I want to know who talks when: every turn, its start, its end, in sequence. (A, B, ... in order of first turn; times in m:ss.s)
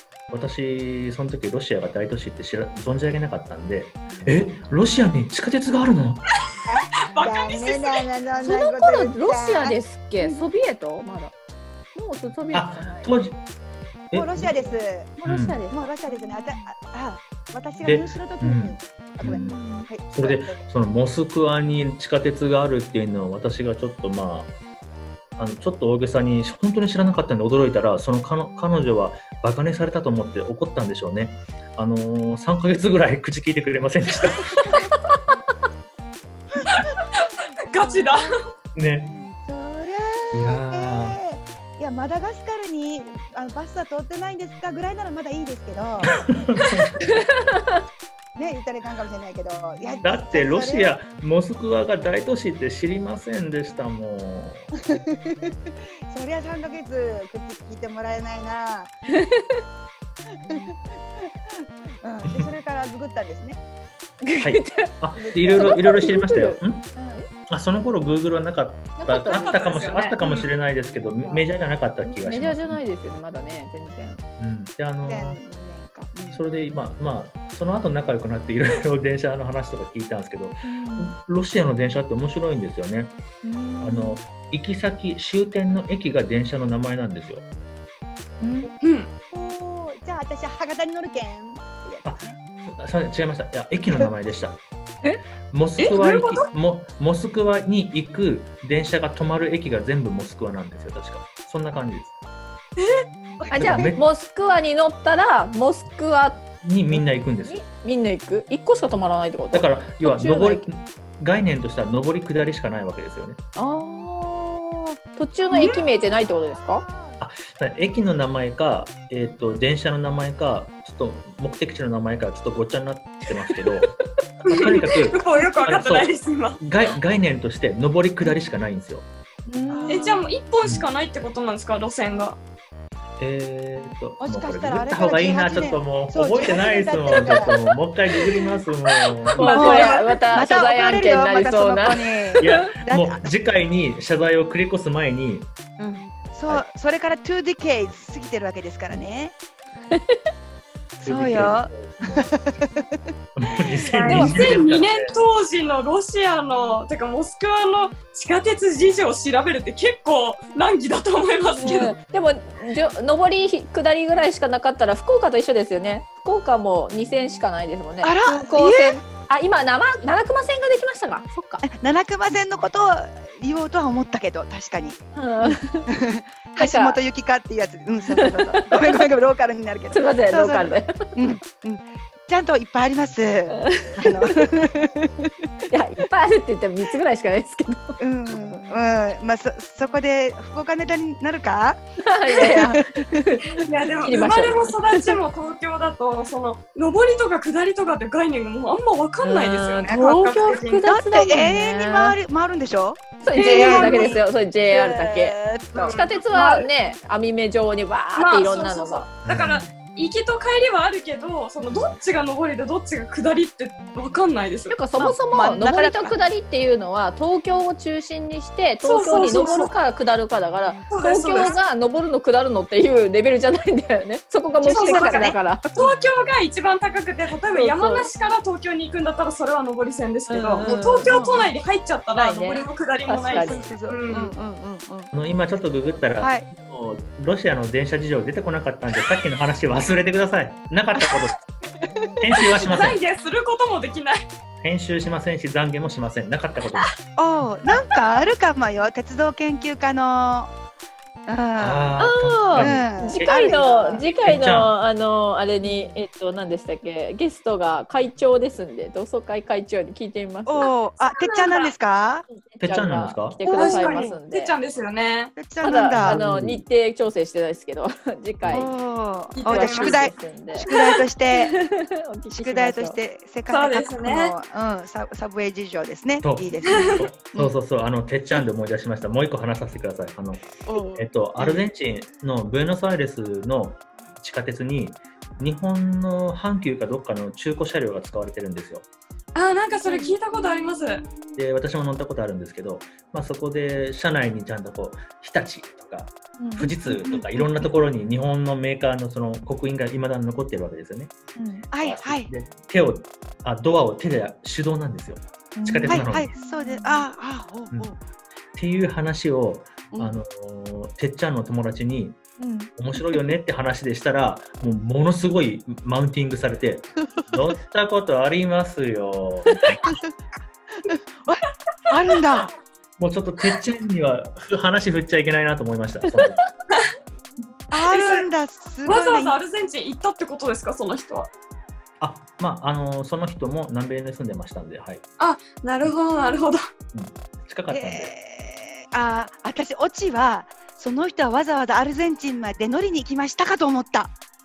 0:00.3-0:06.2 A
0:06.7-0:10.4 B
0:07.0-0:08.0 C
0:08.4-0:11.3 D
0:11.9-0:13.1 D
0:12.5-0:13.4 A
0:14.1-0:15.6 A
0:14.1-0:20.6 B
0:15.2-0:16.3 D
0:17.8-0:19.6 A
0:19.2-0:19.9 D
0:20.1-0:24.5 A
0:25.4-0:34.7 A
0:36.6-0:36.9 B
0:37.7-0:38.4 C
0:37.7-0:38.3 B
0:38.7-0:39.1 A
0:39.0-0:46.2 B
0:40.3-0:41.2 A
0:46.1-0:46.9 A
0:47.0-0:47.8 D
0:48.4-0:50.9 B
0:50.0-0:54.7 A
0:54.9-0:55.5 B
0:56.1-0:58.9 B
0:59.1-0:59.6 D
1:00.4-1:03.6 B
1:04.2-1:04.9 D
1:04.4-1:06.9 A
1:05.2-1:05.8 B
1:05.5-1:07.3 D
1:07.5-1:12.8 A
1:09.0-1:09.8 D
1:09.2-1:10.5 C
1:12.0-1:14.2 D
1:14.4-1:15.4 A
1:15.1-1:16.4 B
1:16.3-1:23.1 A
1:20.6-1:21.1 D
1:23.4-1:24.2 D
1:23.8-1:27.4 A
1:28.4-1:28.7 D
1:28.8-1:29.1 C
1:29.3-1:32.4 B
1:32.0-1:34.6 A
1:35.5-1:42.1 A
1:35.8-1:36.5 C
1:42.8-1:43.0 C
1:43.4-1:43.7 B
1:43.5-1:44.0 A
1:43.5-1:46.4 D
1:46.6-1:47.6 A
1:46.9-1:50.6 D
1:49.5-1:53.4 A
1:53.6-1:56.8 D
1:55.5-1:55.8 C
1:55.5-1:57.2 B
1:57.2-2:03.9 A
2:04.4-2:09.0 A
2:04.4-2:06.6 C
2:09.4-2:10.2 D
2:09.7-2:10.0 A
2:09.9-2:12.4 C
2:13.2-2:19.5 A
2:14.2-2:17.5 B
2:19.3-2:22.6 D
2:19.4-2:20.1 C
2:19.5-2:23.3 B
2:22.4-2:25.5 A
2:25.8-2:29.4 B
2:29.9-2:30.2 D
2:31.0-2:32.9 B
2:31.0-2:32.3 A
2:33.4-2:35.1 A
2:33.6-2:34.6 B
2:33.9-2:42.0 C
2:41.6-2:51.6 D
2:48.0-2:49.0 B
2:51.6-3:05.3 B
2:55.1-2:55.9 D
2:56.6-2:57.0 D
2:58.2-2:59.0 D
2:59.9-3:00.9 D
3:03.6-3:04.5 D
3:05.7-3:08.0 D
3:08.0-3:13.0 B
3:12.0-3:15.2 D
3:13.6-3:20.8 C
3:14.1-3:14.6 B
3:19.2-3:22.2 D
3:20.8-3:26.0 B
3:23.2-3:25.4 D
3:23.3-3:24.2 C
3:25.7-3:26.7 C
3:25.9-3:29.1 D
3:28.1-3:34.8 C
3:29.2-3:29.7 A
3:34.7-3:45.9 D
3:35.0-3:36.2 B
3:38.8-3:39.7 C
3:40.9-3:41.5 C
3:44.6-3:45.4 B
3:44.7-3:54.3 C
3:47.5-3:48.1 D
3:50.3-3:51.4 D
3:51.0-3:51.5 B
3:52.2-3:53.7 D
3:53.3-3:55.1 B
3:55.1-4:01.4 A
3:56.2-3:56.4 B
4:01.0-4:01.3 B
4:01.8-4:02.6 B
4:02.2-4:03.0 A
4:02.6-4:04.2 C
4:04.6-4:06.9 A
4:07.2-4:10.5 B
4:11.3-4:14.1 B
4:11.6-4:12.9 A
4:12.0-4:20.7 D
4:14.2-4:14.7 A
4:20.4-4:22.2 B
4:21.2-4:21.7 C
4:22.3-4:24.5 D
4:22.6-4:23.4 A
4:23.5-4:25.3 C
4:23.5-4:24.0 B
4:25.4-4:26.2 B
4:25.6-4:28.7 D
4:25.9-4:26.6 A
4:28.4-4:28.7 A
4:28.5-4:31.5 B
4:29.3-4:31.0 C
4:29.4-4:30.7 D
4:31.3-4:33.0 D
4:32.3-4:37.5 B
4:33.5-4:34.3 C
4:36.2-4:48.8 A
4:36.7-4:37.0 C
4:40.6-4:41.6 B
4:49.3-4:51.0 C
4:49.8-4:50.9 D
4:51.4-5:01.1 A
4:56.4-4:56.7 D
4:56.8-4:57.7 B
5:01.4-5:01.6 D
5:01.7-5:02.3 B
5:01.8-5:06.3 A
5:05.6-5:07.0 D
5:05.8-5:08.0 B
5:08.5-5:19.8 A
5:12.4-5:12.7 D
5:19.5-5:20.1 B
5:20.8-5:22.5 B
5:23.0-5:26.4 A
5:27.7-5:29.3 B
5:27.8-5:28.3 C
5:28.8-5:31.3 C
5:32.0-5:35.0 A
5:35.2-5:36.6 C
5:36.9-5:38.1 A
5:37.7-5:44.1 B